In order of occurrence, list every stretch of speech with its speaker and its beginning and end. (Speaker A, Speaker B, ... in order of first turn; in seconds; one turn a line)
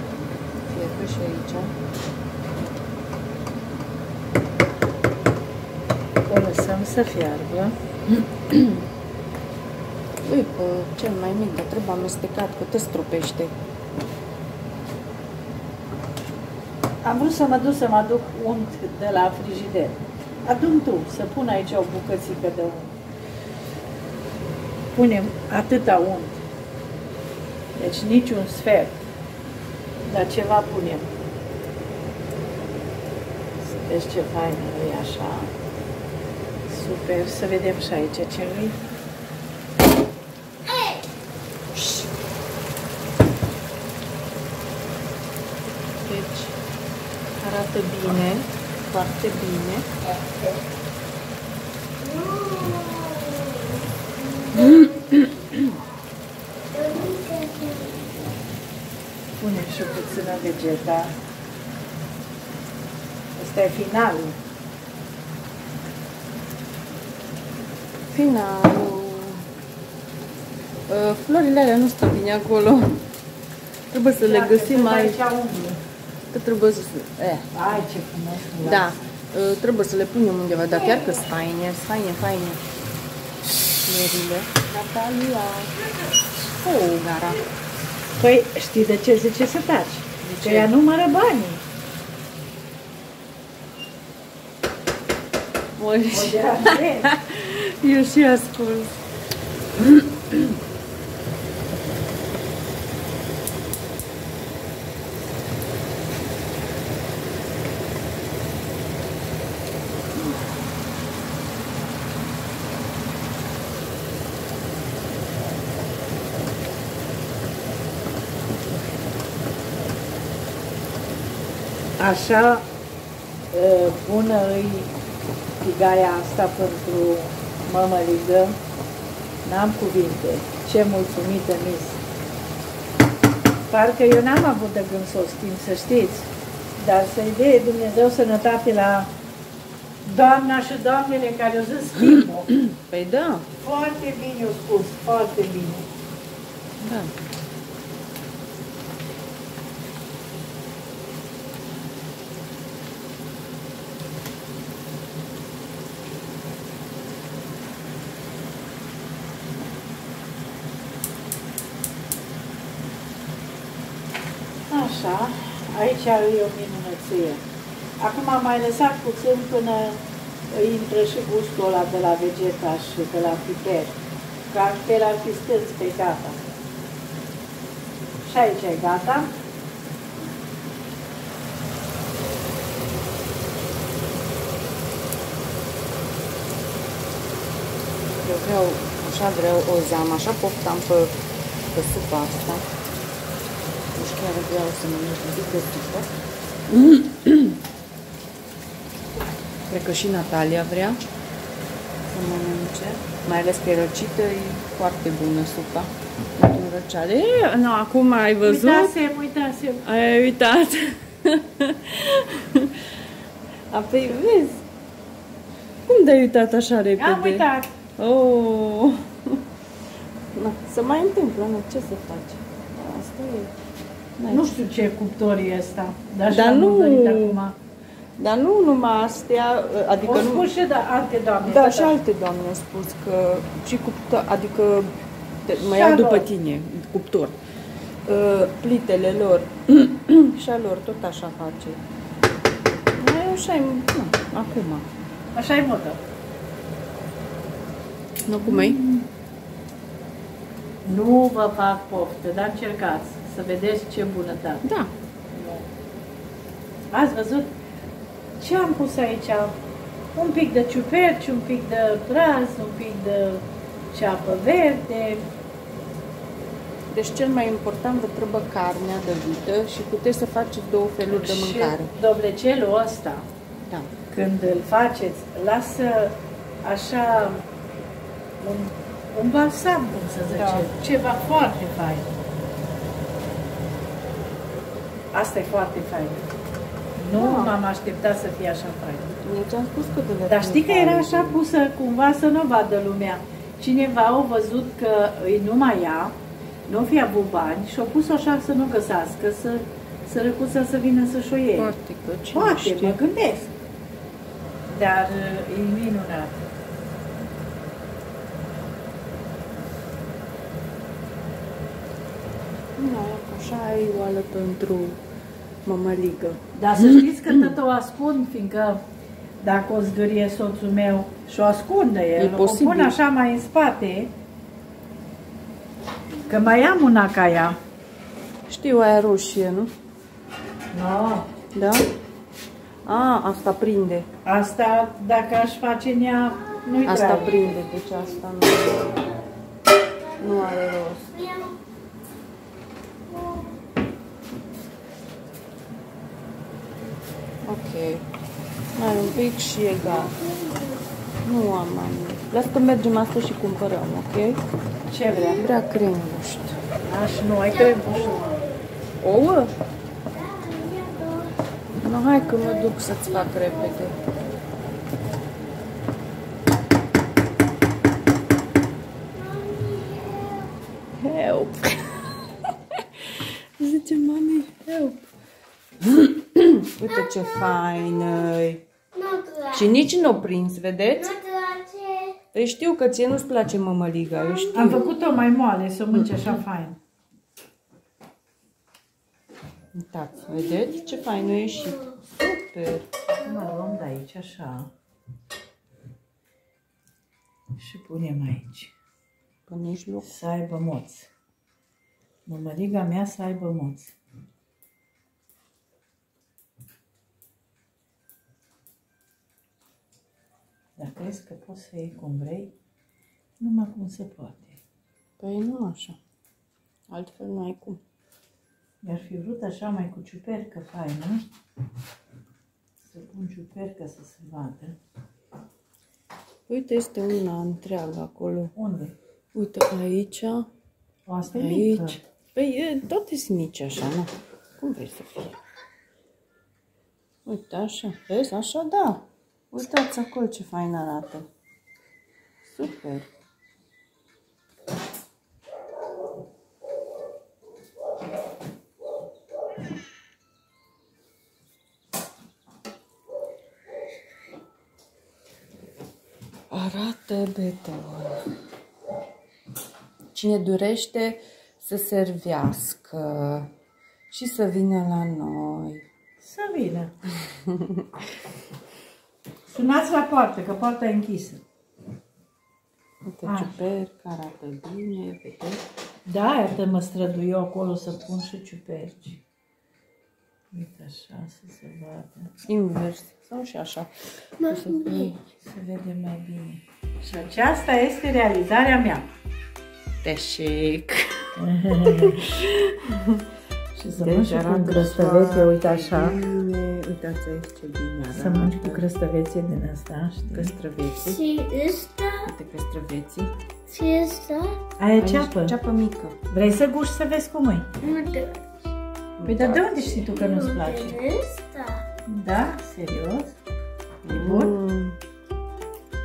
Speaker A: 0.6-1.7
Speaker B: 6.3-7.8
Speaker A: 10.2-13.5
Speaker B: 17.0-22.9
Speaker B: 24.9-26.4
Speaker B: 27.8-29.0
Speaker B: 30.1-31.1
Speaker B: 33.7-35.5
Speaker B: 36.7-38.8
Speaker A: 41.7-42.1
Speaker A: 45.8-46.5
Speaker A: 47.4-49.9
Speaker C: 52.0-55.8
Speaker A: 54.5-55.3
Speaker C: 56.7-58.3
Speaker B: 59.4-61.1
Speaker B: 63.4-64.4
Speaker A: 68.1-69.5
Speaker A: 70.9-73.0
Speaker A: 73.9-75.2
Speaker B: 74.2-75.8
Speaker A: 76.3-77.5
Speaker B: 77.5-79.0
Speaker A: 78.6-82.6
Speaker A: 83.8-85.7
Speaker A: 86.5-87.4
Speaker B: 88.2-91.6
Speaker A: 90.2-90.7
Speaker A: 95.8-98.9
Speaker B: 96.1-97.1
Speaker A: 99.8-100.5
Speaker B: 122.0-122.7
Speaker B: 123.5-124.9
Speaker B: 125.6-128.6
Speaker B: 129.4-132.0
Speaker B: 133.7-139.1
Speaker B: 140.0-142.5
Speaker A: 142.5-143.5
Speaker B: 143.6-145.9
Speaker A: 146.8-147.1
Speaker B: 164.7-167.4
Speaker B: 168.0-174.0
Speaker B: 174.5-176.4
Speaker B: 178.2-179.3
Speaker A: 188.2-191.2
Speaker A: 191.7-192.6
Speaker A: 193.9-196.2
Speaker A: 196.7-197.6
Speaker A: 199.7-201.0
Speaker A: 202.1-208.9
Speaker B: 208.4-209.8
Speaker A: 209.8-212.9
Speaker A: 213.7-214.6
Speaker A: 215.9-219.4
Speaker B: 217.0-217.7
Speaker A: 220.3-223.5
Speaker A: 224.2-224.5
Speaker B: 224.3-227.6
Speaker A: 226.3-227.4
Speaker A: 228.2-230.5
Speaker B: 230.0-231.9
Speaker A: 231.4-237.4
Speaker B: 235.5-236.3
Speaker A: 238.0-241.8
Speaker A: 243.0-244.9
Speaker B: 245.3-246.0
Speaker A: 248.2-248.8
Speaker B: 248.4-249.1
Speaker B: 250.8-254.6
Speaker A: 254.6-254.9
Speaker B: 255.3-255.7
Speaker B: 256.9-257.6
Speaker B: 258.4-259.6
Speaker B: 260.1-265.3
Speaker A: 266.9-271.9
Speaker B: 271.0-273.3
Speaker B: 274.1-277.4
Speaker B: 278.4-282.1
Speaker A: 280.3-280.7
Speaker B: 285.1-286.3
Speaker B: 287.0-289.1
Speaker A: 287.2-287.6
Speaker A: 289.2-291.4
Speaker B: 290.3-301.7
Speaker A: 301.6-303.0
Speaker B: 302.3-303.5
Speaker B: 304.7-306.5
Speaker A: 312.8-315.0
Speaker A: 315.6-317.3
Speaker B: 316.5-318.8
Speaker B: 319.4-324.1
Speaker A: 322.1-322.9
Speaker B: 326.2-327.6
Speaker A: 328.5-329.7
Speaker B: 330.7-331.3
Speaker A: 331.5-331.9
Speaker A: 332.8-334.1
Speaker B: 334.2-337.5
Speaker A: 336.8-339.1
Speaker C: 338.7-339.1
Speaker C: 340.0-341.6
Speaker A: 340.2-341.1
Speaker C: 343.1-343.5
Speaker A: 347.4-348.0
Speaker A: 348.7-350.1
Speaker C: 348.9-349.2
Speaker C: 349.8-350.9
Speaker A: 351.2-354.4
Speaker B: 354.9-355.5
Speaker A: 355.1-356.6
Speaker B: 356.9-358.2
Speaker C: 357.5-358.6
Speaker A: 359.0-359.5
Speaker C: 360.1-361.4
Speaker A: 361.8-363.9
Speaker C: 362.1-364.4
Speaker C: 369.1-370.5
Speaker A: 371.0-375.0
Speaker A: 375.8-378.6
Speaker C: 377.1-378.1
Speaker C: 378.9-379.9
Speaker A: 379.5-381.1
Speaker C: 380.9-382.2
Speaker A: 382.3-384.9
Speaker C: 384.1-385.1
Speaker B: 384.5-386.8
Speaker A: 385.9-386.4
Speaker A: 389.7-392.9
Speaker C: 390.2-392.0
Speaker B: 393.1-394.7
Speaker B: 397.6-398.7
Speaker A: 399.5-400.1
Speaker B: 400.0-401.1
Speaker B: 402.2-403.9
Speaker B: 410.8-412.5
Speaker B: 413.4-414.6
Speaker A: 415.2-416.0
Speaker A: 416.9-417.8
Speaker B: 418.8-421.2
Speaker B: 422.9-424.8
Speaker A: 426.5-428.5
Speaker B: 428.5-428.9
Speaker A: 429.3-430.5
Speaker B: 431.1-432.0
Speaker A: 431.3-435.4
Speaker A: 437.2-441.3
Speaker A: 442.4-443.1
Speaker A: 456.5-458.3
Speaker A: 460.1-463.5
Speaker A: 464.1-465.9
Speaker B: 466.2-466.9
Speaker A: 467.4-467.9
Speaker B: 469.5-471.4
Speaker A: 473.1-475.6
Speaker B: 473.2-473.5
Speaker B: 476.1-479.2
Speaker B: 480.5-482.3
Speaker A: 482.4-485.2
Speaker C: 484.4-485.1
Speaker B: 485.4-489.1
Speaker A: 490.0-491.2
Speaker B: 491.4-492.4
Speaker A: 491.9-493.2
Speaker B: 493.8-496.2
Speaker A: 493.9-498.8
Speaker B: 498.1-500.5
Speaker A: 500.3-501.2
Speaker C: 500.9-502.3
Speaker A: 502.2-503.3
Speaker C: 503.7-504.6
Speaker B: 504.8-505.5
Speaker A: 505.0-506.2
Speaker B: 506.3-507.7
Speaker C: 507.8-508.6
Speaker A: 509.2-510.1
Speaker B: 509.2-511.0
Speaker C: 510.0-511.8
Speaker B: 512.1-513.3
Speaker A: 514.0-515.0
Speaker B: 514.1-514.5